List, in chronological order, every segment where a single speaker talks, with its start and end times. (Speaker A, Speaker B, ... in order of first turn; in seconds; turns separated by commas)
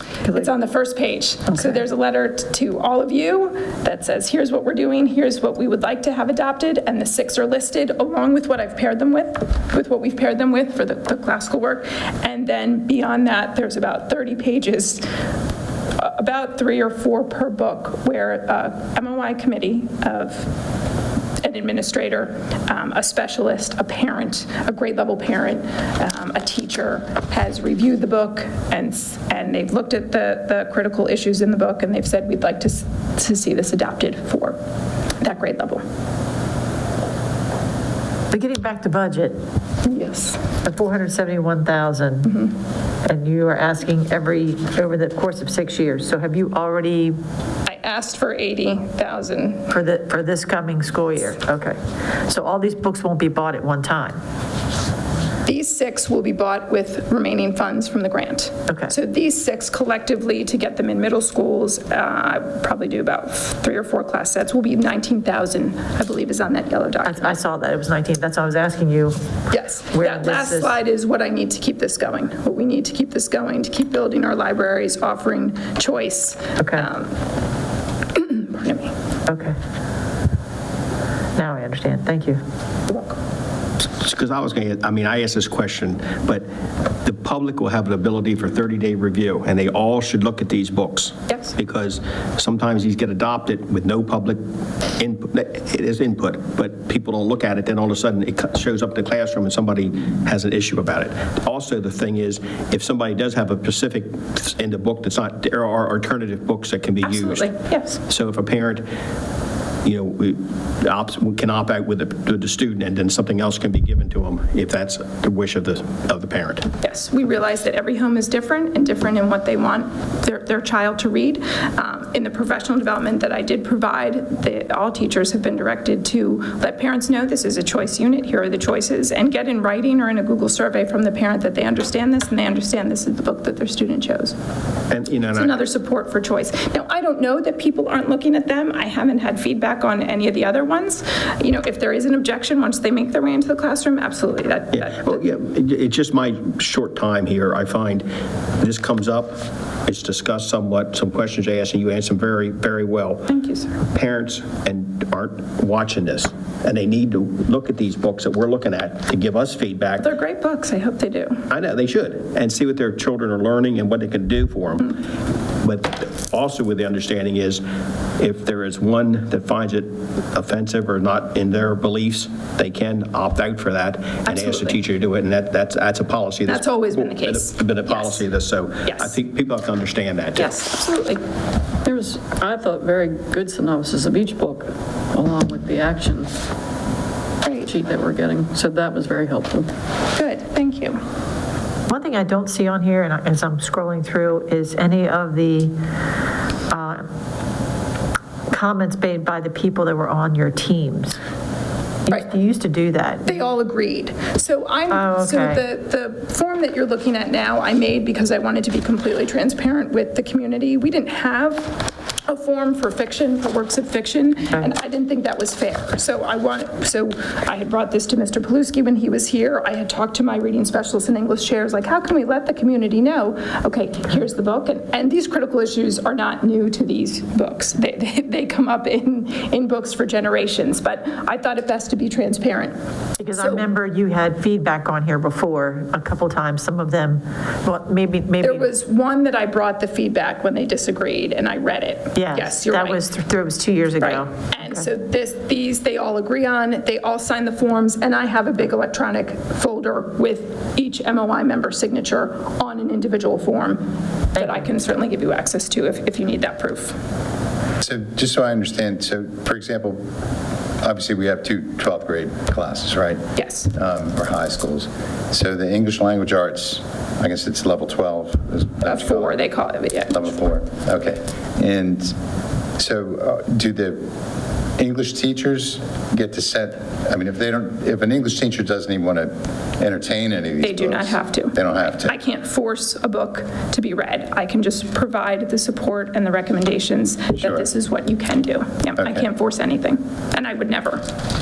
Speaker A: 0.3-15.0, Speaker A: 16.0-20.5, Speaker A: 21.4-34.6, Speaker A: 35.2-35.8, Speaker B: 38.3-39.4, Speaker A: 39.8-40.4, Speaker B: 40.6-42.5, Speaker B: 43.1-47.2, Speaker A: 47.7-49.7, Speaker B: 49.7-54.2, Speaker A: 55.5-67.4, Speaker B: 67.0-69.2, Speaker A: 69.5-77.1, Speaker B: 69.9-70.7, Speaker B: 76.6-76.9, Speaker A: 78.2-78.9, Speaker B: 79.3-79.6, Speaker B: 81.4-82.4, Speaker A: 82.9-83.2, Speaker C: 84.0-86.5, Speaker C: 87.0-94.4, Speaker C: 95.0-107.5, Speaker A: 107.0-108.0, Speaker C: 108.1-108.9, Speaker C: 109.8-116.7, Speaker A: 116.8-134.3, Speaker C: 134.9-135.6, Speaker A: 135.3-145.2, Speaker C: 144.8-148.1, Speaker C: 148.6-153.3, Speaker A: 153.3-153.8, Speaker C: 153.9-160.1, Speaker A: 160.0-161.4, Speaker C: 161.5-165.0, Speaker C: 165.6-167.6, Speaker C: 168.2-180.5, Speaker A: 174.3-174.8, Speaker A: 176.5-178.2, Speaker A: 178.8-179.1, Speaker A: 180.3-181.2, Speaker D: 181.8-186.3, Speaker A: 187.4-187.7, Speaker D: 187.7-189.7, Speaker A: 190.2-191.0, Speaker B: 191.9-195.7, Speaker B: 196.7-197.1, Speaker B: 198.5-201.2, Speaker B: 202.1-203.5, Speaker A: 203.3-232.8, Speaker B: 204.9-205.7, Speaker B: 233.2-238.7, Speaker A: 233.4-233.7, Speaker A: 238.4-243.0, Speaker B: 242.2-244.8, Speaker A: 244.0-257.0, Speaker E: 257.8-260.0, Speaker E: 260.8-263.2, Speaker A: 263.4-263.7, Speaker E: 263.7-269.5, Speaker A: 268.9-270.4, Speaker E: 270.1-272.1, Speaker E: 272.8-274.0, Speaker E: 274.8-282.1, Speaker A: 280.6-291.0, Speaker E: 287.4-287.7, Speaker E: 289.0-289.3